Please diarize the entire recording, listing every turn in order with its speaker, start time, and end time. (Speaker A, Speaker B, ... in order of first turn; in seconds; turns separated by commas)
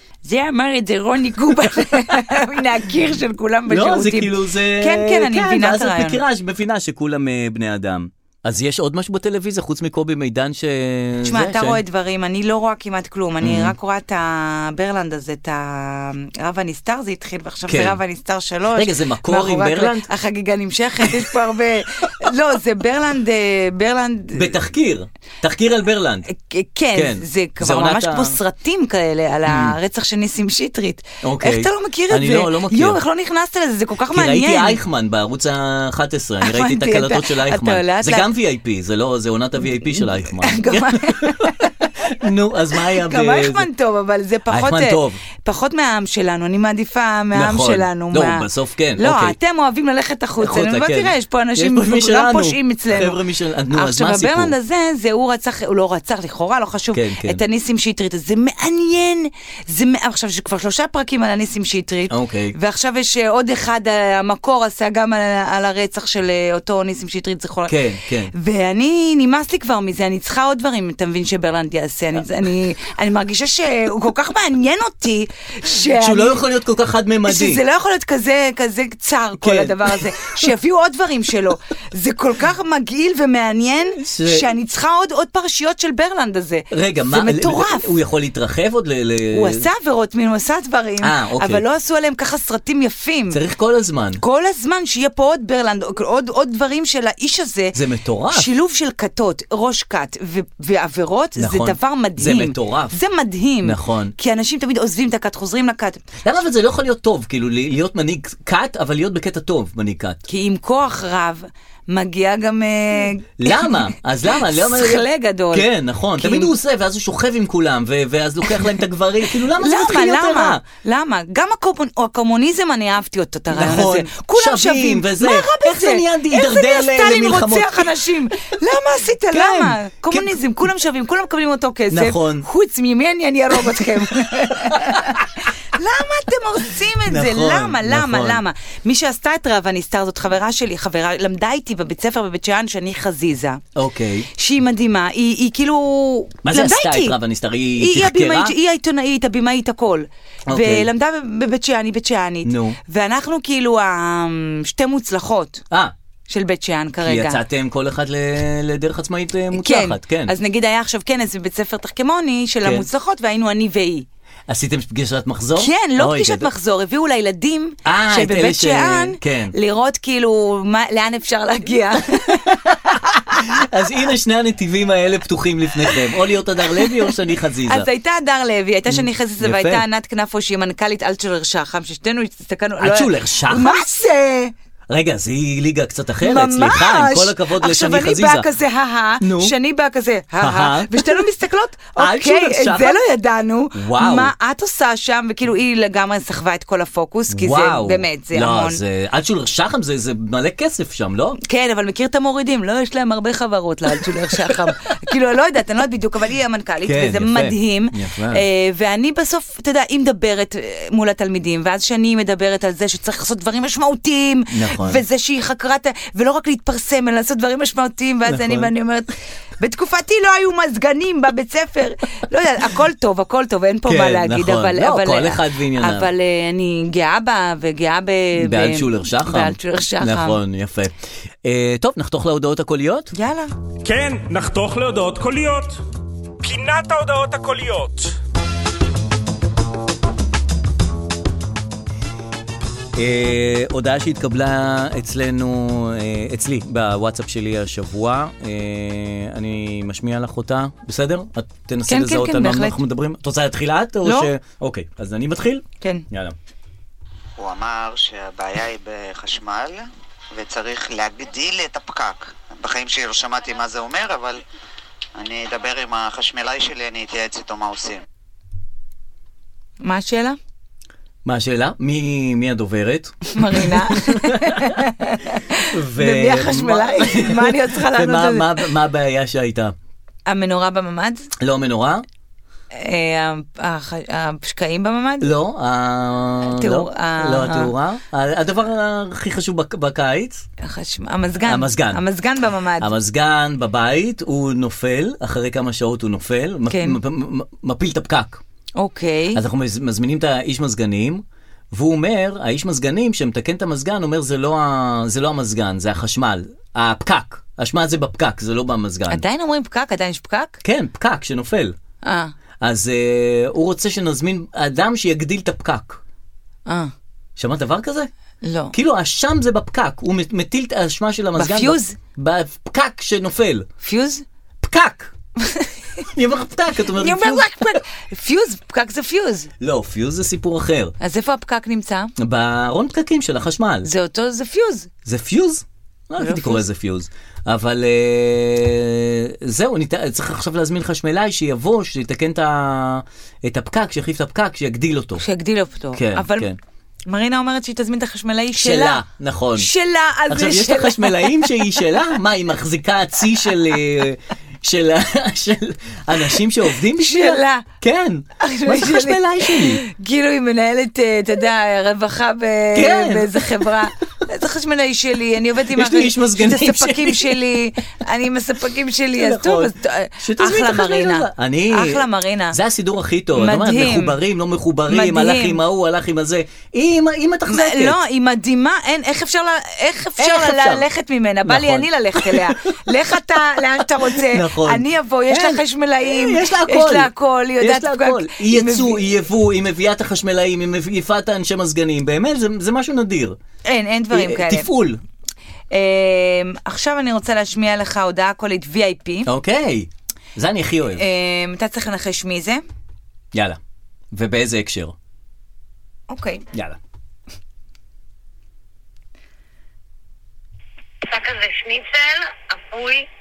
Speaker A: 0.2-6.2, Speaker B: 3.7-11.8, Speaker A: 11.2-24.6, Speaker B: 13.4-13.7, Speaker B: 17.7-18.0, Speaker B: 18.7-20.1, Speaker B: 24.3-26.3, Speaker A: 26.3-34.8, Speaker B: 26.9-28.4, Speaker B: 29.4-29.8, Speaker B: 31.2-33.0, Speaker B: 34.1-43.7, Speaker A: 36.4-38.3, Speaker A: 39.9-41.9, Speaker A: 42.8-53.2, Speaker B: 44.5-45.2, Speaker B: 47.3-49.4, Speaker B: 50.4-54.5, Speaker A: 53.7-67.8, Speaker B: 56.9-57.4, Speaker B: 62.1-62.5, Speaker B: 67.7-68.3, Speaker A: 68.3-76.4, Speaker B: 75.9-77.6, Speaker A: 77.3-87.9, Speaker B: 79.4-80.5, Speaker B: 84.0-84.5, Speaker B: 86.7-89.6, Speaker A: 89.3-93.4, Speaker B: 91.0-91.6, Speaker B: 93.3-94.2, Speaker A: 94.2-97.8, Speaker B: 97.7-98.5, Speaker A: 98.3-106.0, Speaker B: 101.4-102.9, Speaker B: 103.6-104.1, Speaker B: 106.2-110.2, Speaker A: 110.3-116.5, Speaker B: 113.4-120.6, Speaker A: 119.6-143.6, Speaker B: 123.5-128.0, Speaker B: 129.3-130.4, Speaker B: 131.9-132.4, Speaker B: 134.5-135.0, Speaker B: 137.1-138.4, Speaker B: 143.7-144.3, Speaker A: 144.4-147.2, Speaker B: 146.4-148.6, Speaker A: 147.8-155.6, Speaker B: 150.5-150.9, Speaker B: 152.4-152.8, Speaker A: 156.3-157.4, Speaker B: 157.0-160.3, Speaker A: 159.5-164.1, Speaker B: 164.5-166.5, Speaker A: 165.6-173.6, Speaker B: 167.8-169.5, Speaker B: 172.5-177.9, Speaker A: 176.8-177.1, Speaker A: 177.7-184.5, Speaker B: 178.9-179.8, Speaker B: 182.8-183.8, Speaker B: 184.9-188.5, Speaker A: 186.2-198.8, Speaker B: 189.2-189.6, Speaker B: 190.4-191.3, Speaker B: 192.0-193.0, Speaker B: 193.7-194.3, Speaker B: 197.3-201.4, Speaker A: 201.4-230.4, Speaker B: 206.8-208.4, Speaker B: 214.5-215.0, Speaker B: 218.3-218.7, Speaker B: 223.9-226.1, Speaker B: 228.4-233.1, Speaker A: 233.1-233.5, Speaker C: 233.8-235.8, Speaker C: 236.4-238.2, Speaker B: 242.9-256.4, Speaker A: 251.9-252.8, Speaker A: 254.0-254.3, Speaker D: 257.4-264.4, Speaker D: 265.2-268.0, Speaker A: 269.8-270.4, Speaker B: 271.2-274.8, Speaker A: 273.3-278.6, Speaker B: 275.7-279.7, Speaker A: 280.3-281.3, Speaker B: 281.4-282.1, Speaker A: 282.7-285.3, Speaker B: 285.2-290.4, Speaker A: 286.5-287.7, Speaker A: 290.6-292.9, Speaker B: 291.4-292.0, Speaker B: 292.8-298.4, Speaker A: 296.7-297.0, Speaker A: 298.8-299.4, Speaker B: 299.3-309.2, Speaker A: 309.1-310.6, Speaker B: 310.6-311.7, Speaker A: 312.1-312.3, Speaker B: 312.6-316.0, Speaker A: 316.7-316.9, Speaker B: 317.4-318.1, Speaker A: 318.4-318.8, Speaker B: 318.7-323.7, Speaker A: 321.4-322.0, Speaker A: 323.8-324.2, Speaker B: 324.6-325.1, Speaker A: 325.4-325.7, Speaker B: 326.1-327.8, Speaker A: 326.9-329.5, Speaker B: 329.6-330.9, Speaker A: 331.0-332.1, Speaker B: 332.2-333.9, Speaker A: 333.8-334.9, Speaker B: 335.1-345.2, Speaker A: 336.2-336.6, Speaker A: 345.2-346.5, Speaker B: 345.9-346.6, Speaker A: 347.1-349.0, Speaker B: 348.6-349.7, Speaker A: 349.6-351.7, Speaker B: 350.3-359.8, Speaker A: 356.9-357.7, Speaker A: 358.4-372.6, Speaker B: 362.7-363.7, Speaker B: 365.7-367.4, Speaker B: 369.1-378.0, Speaker A: 373.4-374.2, Speaker A: 374.9-375.6, Speaker A: 377.5-389.1, Speaker B: 380.2-380.9, Speaker B: 381.4-383.0, Speaker B: 383.6-393.4, Speaker A: 393.7-394.7, Speaker B: 394.1-395.0, Speaker A: 395.7-399.3, Speaker B: 399.3-401.0, Speaker A: 401.0-402.6, Speaker B: 403.3-403.6, Speaker B: 404.1-404.9, Speaker A: 406.1-406.4, Speaker B: 406.5-406.8, Speaker A: 411.1-413.0